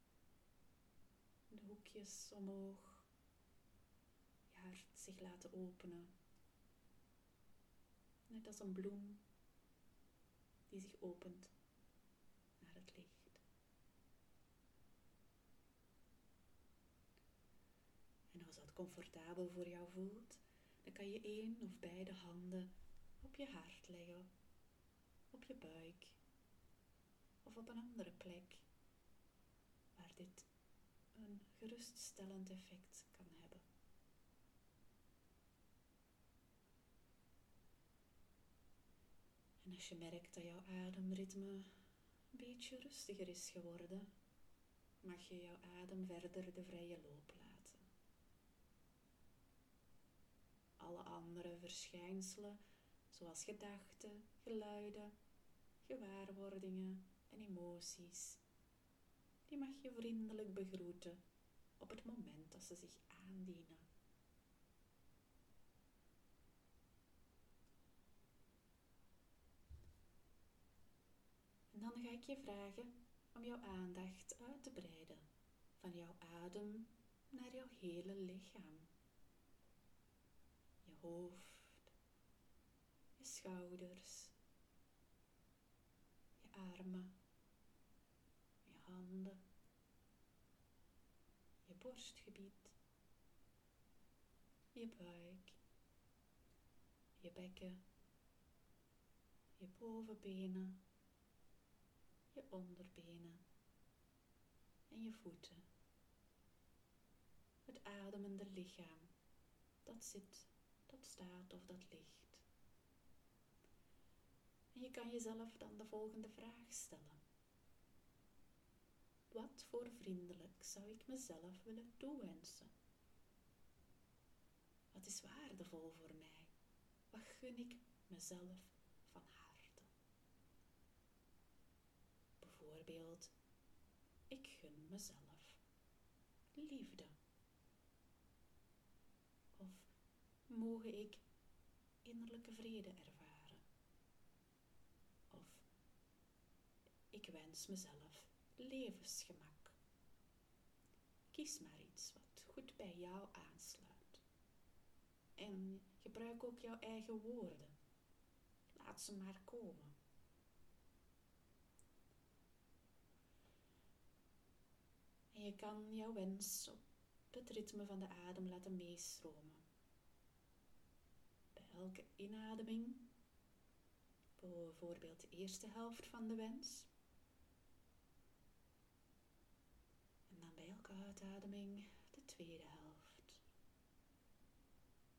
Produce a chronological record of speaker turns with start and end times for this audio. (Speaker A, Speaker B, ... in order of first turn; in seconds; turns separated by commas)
Speaker A: 1.5-3.1, Speaker A: 4.5-6.1, Speaker A: 8.3-9.2, Speaker A: 10.7-11.5, Speaker A: 12.6-13.4, Speaker A: 18.3-24.3, Speaker A: 25.3-26.2, Speaker A: 27.4-28.7, Speaker A: 29.9-30.5, Speaker A: 31.1-33.6, Speaker A: 39.6-41.7, Speaker A: 42.3-44.1, Speaker A: 45.0-47.8, Speaker A: 50.8-52.6, Speaker A: 53.1-55.1, Speaker A: 55.8-58.4, Speaker A: 59.5-61.2, Speaker A: 61.8-63.9, Speaker A: 71.7-75.2, Speaker A: 75.8-78.9, Speaker A: 80.8-81.9, Speaker A: 83.2-84.3, Speaker A: 86.4-87.2, Speaker A: 88.7-89.4, Speaker A: 91.7-92.8, Speaker A: 94.8-95.6, Speaker A: 97.2-97.8, Speaker A: 99.6-100.8, Speaker A: 102.3-103.4, Speaker A: 104.9-105.7, Speaker A: 107.7-109.1, Speaker A: 109.8-112.5, Speaker A: 114.7-117.2, Speaker A: 119.3-122.7, Speaker A: 124.9-126.5, Speaker A: 127.1-129.9, Speaker A: 132.4-133.3, Speaker A: 134.3-135.6, Speaker A: 136.6-137.2, Speaker A: 139.6-139.9, Speaker A: 140.5-141.2, Speaker A: 142.0-143.6, Speaker A: 145.3-145.7, Speaker A: 147.1-149.8, Speaker A: 151.3-154.2, Speaker A: 155.4-157.7, Speaker A: 158.7-159.9, Speaker A: 165.3-166.8, Speaker A: 167.3-169.6, Speaker A: 171.6-173.1, Speaker A: 174.4-176.9, Speaker A: 180.3-183.4